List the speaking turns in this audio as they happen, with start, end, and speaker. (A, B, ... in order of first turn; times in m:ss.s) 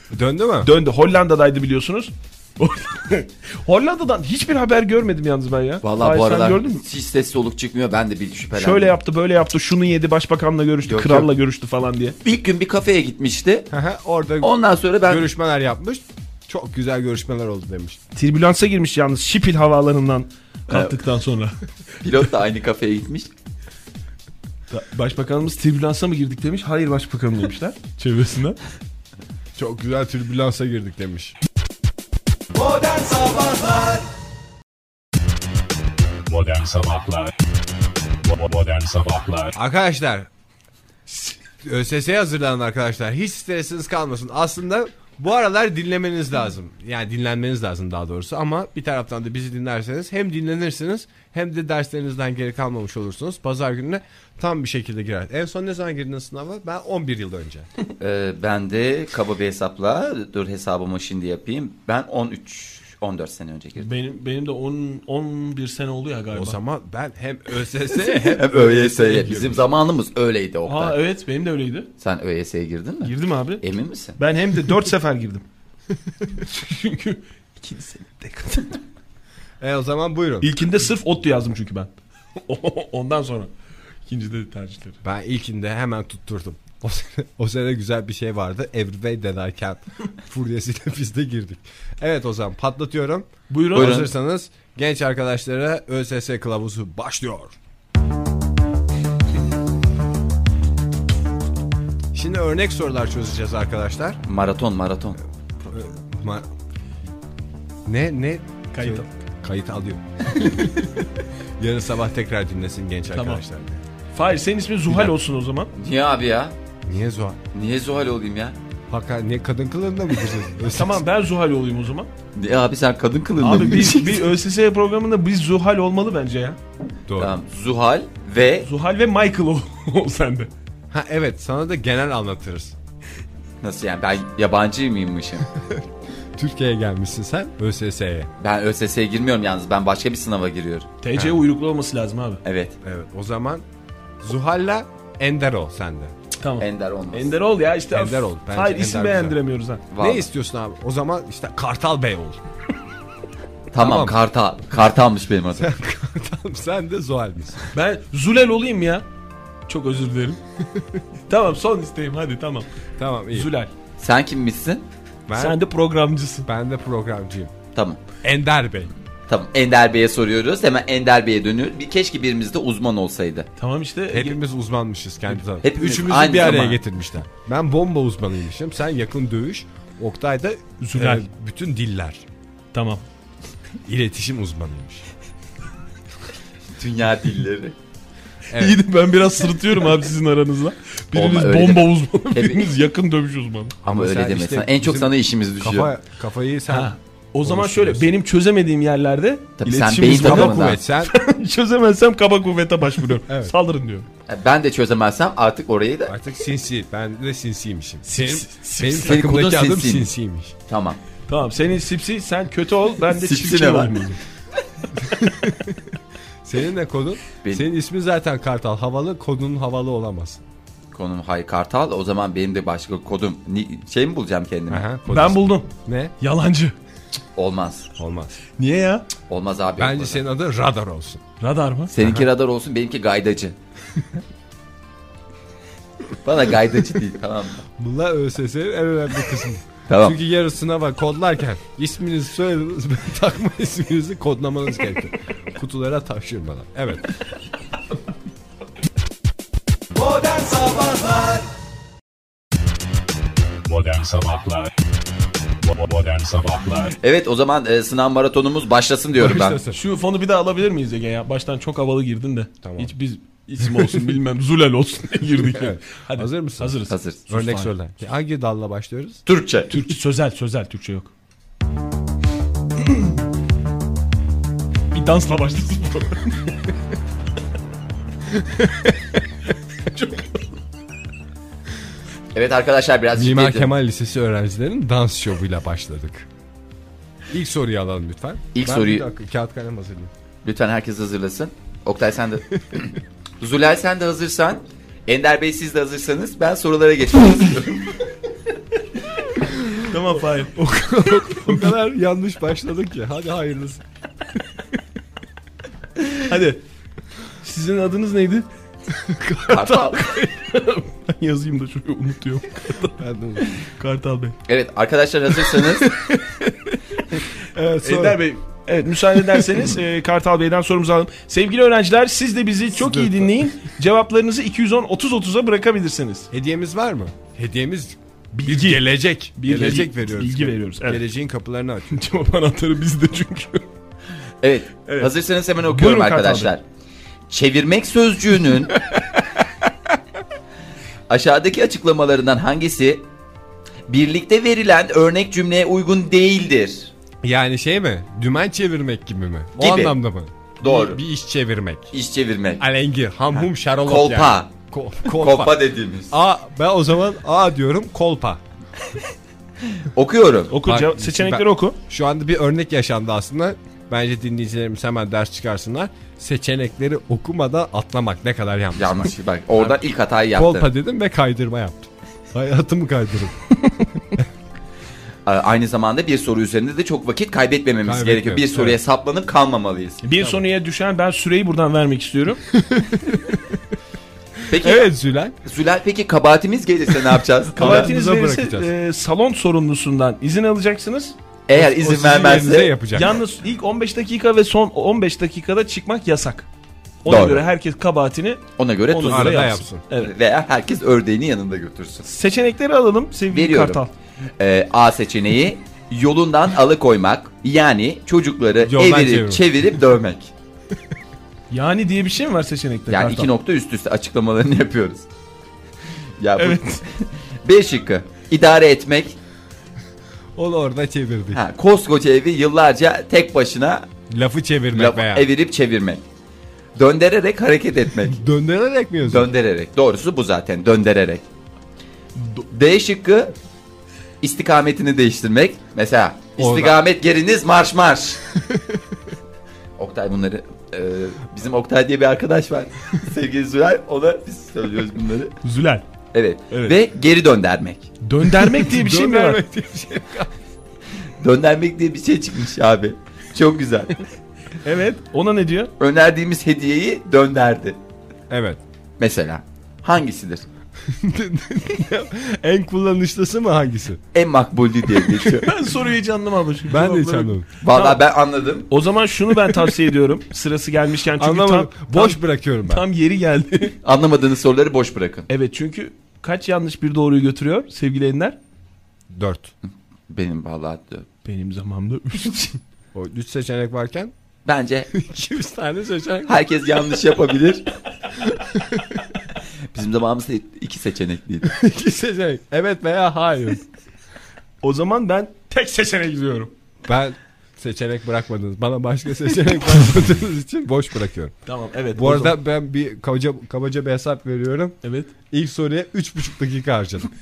0:00.1-0:00.7 A
0:00.6-0:06.8 B
0:05.8-0:09.0 C
0:08.5-0:12.2 B
0:10.9-0:11.3 C
0:12.2-0:13.7 C
0:13.7-0:14.5 A
0:14.4-0:15.3 C
0:15.1-0:18.0 A
0:18.1-0:21.6 B
0:20.7-0:21.0 C
0:22.0-0:23.3 C
0:24.7-0:28.6 B
0:29.6-0:31.3 A
0:33.0-0:33.9 B
0:36.2-0:37.4 D
0:38.0-0:39.5 D
0:39.6-0:40.3 A
0:41.1-0:57.7 A
0:58.0-1:03.9 C
1:03.8-1:06.6 B
1:06.3-1:09.6 A
1:08.0-1:11.0 C
1:10.6-1:11.9 B
1:12.0-1:14.2 C
1:13.0-1:13.6 B
1:14.2-1:15.4 B
1:16.4-1:18.8 B
1:19.6-1:20.5 A
1:20.4-1:23.5 B
1:24.0-1:25.0 B
1:25.0-1:37.6 A
1:33.5-1:34.0 B
1:33.7-1:34.1 C
1:42.1-1:44.2 A
1:44.2-1:45.2 C
1:45.7-1:46.5 A
1:47.8-1:50.7 A
1:48.7-1:49.0 B
1:51.6-1:53.8 A
1:53.1-1:53.4 B
1:54.1-1:55.7 B
1:55.8-1:56.5 C
1:56.8-1:57.4 A
1:57.5-1:58.6 C
1:58.9-2:01.0 A
2:00.7-2:02.1 B
2:02.3-2:04.3 C
2:03.4-2:06.6 B
2:07.1-2:07.4 A
2:07.2-2:08.7 C
2:08.6-2:10.5 B
2:10.9-2:12.7 A
2:13.6-2:15.5 C
2:15.5-2:18.3 A
2:18.4-2:20.9 C
2:21.0-2:22.4 B
2:22.4-2:22.7 C
2:22.8-2:23.6 A
2:24.2-2:26.1 A
2:26.4-2:29.8 B
2:26.6-2:27.3 C
2:27.9-2:29.4 A
2:29.9-2:30.3 C
2:30.0-2:32.4 A
2:33.7-2:35.7 C
2:33.8-2:34.1 A
2:35.6-2:37.6 A
2:37.7-2:39.0 B
2:39.7-2:40.4 B
2:40.7-2:41.0 A
2:41.3-2:42.7 B
2:43.0-2:43.5 A
2:43.3-2:43.7 B
2:44.0-2:44.8 C
2:45.3-2:45.6 A
2:45.4-2:46.5 B
2:46.4-2:47.5 A
2:47.7-2:48.0 C
2:48.2-2:48.9 A
2:49.3-2:53.5 C
2:53.6-2:54.4 B
2:54.1-3:02.2 A
2:55.6-2:56.8 C
3:00.8-3:01.2 B
3:02.7-3:03.0 B
3:03.8-3:05.1 A
3:06.8-3:07.7 C
3:08.5-3:08.8 A
3:08.5-3:13.7 B
3:11.1-3:12.7 C
3:13.8-3:15.9 C
3:13.8-3:18.1 A
3:16.7-3:24.1 B
3:19.6-3:20.8 C
3:20.1-3:21.1 A
3:23.3-3:23.5 A
3:24.3-3:26.1 C
3:26.1-3:30.5 A
3:28.0-3:29.2 B
3:28.9-3:30.1 C
3:30.7-3:31.0 C
3:31.3-3:34.2 B
3:33.1-3:34.0 C
3:35.0-3:35.9 A
3:36.4-3:40.4 A
3:40.9-3:44.9 C
3:44.7-3:46.1 A
3:45.1-3:46.8 B
3:47.4-3:47.9 C
3:48.0-3:48.4 A
3:48.6-3:49.1 B
3:49.3-3:50.2 C
3:49.8-3:51.2 A
3:51.4-3:51.9 B
3:51.9-3:53.5 C
3:52.0-3:52.2 A
3:56.2-3:57.6 C
3:57.8-4:07.1 A
3:59.9-4:00.2 C
4:10.4-4:11.3 B
4:13.6-4:16.9 D
4:17.0-4:19.6 C
4:19.2-4:19.8 A
4:19.7-4:27.7 B
4:22.6-4:22.9 A
4:25.4-4:26.8 A
4:26.9-4:27.2 C
4:27.3-4:29.2 A
4:29.2-4:29.7 C
4:29.7-4:31.1 B
4:34.9-4:36.6 B
4:38.3-4:39.2 A
4:39.8-4:40.4 B
4:42.3-4:43.7 C
4:43.1-4:46.3 A
4:47.3-4:50.1 A
4:48.5-4:49.0 C
4:50.4-4:58.0 C
4:59.5-4:59.8 A
4:59.8-5:01.7 B
5:00.6-5:03.8 A
5:06.2-5:06.6 B
5:07.4-5:08.5 B
5:08.9-5:10.3 A
5:09.5-5:10.1 C
5:09.8-5:13.0 B
5:13.0-5:13.5 A
5:13.5-5:14.4 B
5:14.5-5:15.9 C
5:15.9-5:17.3 B
5:17.5-5:18.2 A
5:17.8-5:26.3 B
5:22.8-5:23.4 A
5:26.3-5:32.0 A
5:28.3-5:31.0 B
5:31.9-5:33.7 B
5:34.4-5:36.6 C
5:34.8-5:35.1 B
5:35.6-5:36.5 B
5:37.3-5:38.8 C
5:41.1-5:43.0 C
5:43.9-5:46.9 C
5:47.2-5:51.9 A
5:49.6-5:50.0 C
5:50.6-5:51.0 C
5:51.9-5:52.6 C
5:52.6-5:55.5 A
5:53.8-5:54.5 C
5:55.1-5:56.1 C
5:56.1-5:58.4 A
5:59.8-6:00.6 C
6:00.5-6:01.8 B
6:00.6-6:09.1 A
6:08.8-6:10.7 C
6:10.3-6:13.3 A
6:15.2-6:20.0 C
6:17.8-6:18.8 A
6:20.0-6:22.4 B
6:22.5-6:23.6 A
6:24.5-6:24.9 C
6:24.5-6:25.3 A
6:25.4-6:27.9 C
6:27.5-6:28.7 A
6:27.6-6:31.2 B
6:31.5-6:32.7 C
6:31.5-6:33.2 A
6:32.9-6:36.5 B
6:37.0-6:40.1 B
6:37.0-6:37.5 C
6:38.6-6:42.1 C
6:39.0-6:39.8 A
6:42.0-6:43.9 B
6:43.3-6:43.8 C
6:44.4-6:50.3 C
6:48.6-6:49.4 A
6:51.5-6:53.3 B
6:52.9-6:55.0 C
6:56.2-6:59.2 C
6:56.4-6:56.8 B
7:00.4-7:01.4 A
7:01.3-7:03.8 C
7:04.1-7:05.3 A
7:04.7-7:06.0 C
7:06.8-7:08.2 C
7:08.1-7:09.3 A
7:09.0-7:11.2 C
7:12.5-7:13.3 C
7:14.2-7:18.2 C
7:16.4-7:16.8 A
7:18.3-7:19.0 A
7:19.8-7:25.3 C
7:25.4-7:25.8 B
7:26.1-7:27.9 C
7:26.5-7:26.8 B
7:28.0-7:29.4 B
7:28.4-7:30.3 A
7:31.2-7:34.0 C
7:34.6-7:35.7 B
7:35.8-7:37.8 C
7:38.3-7:38.6 A
7:39.0-7:40.4 C
7:40.8-7:44.0 A
7:44.1-7:45.5 C
7:45.3-7:48.0 B
7:46.7-7:47.5 A
7:47.6-7:48.7 C
7:48.7-7:53.8 B
7:51.2-7:52.8 A
7:53.8-7:55.3 C
7:55.3-7:58.4 B
7:59.1-7:59.5 A
8:00.1-8:01.0 C
8:01.2-8:02.6 B
8:02.9-8:04.1 A
8:04.4-8:04.9 C
8:04.9-8:06.4 A
8:06.2-8:07.7 C
8:08.5-8:08.8 A
8:09.7-8:11.5 C
8:11.4-8:13.6 A
8:14.6-8:16.5 B
8:16.8-8:21.3 A
8:21.4-8:22.4 B
8:21.9-8:24.8 A
8:24.8-8:25.1 B
8:25.3-8:27.1 A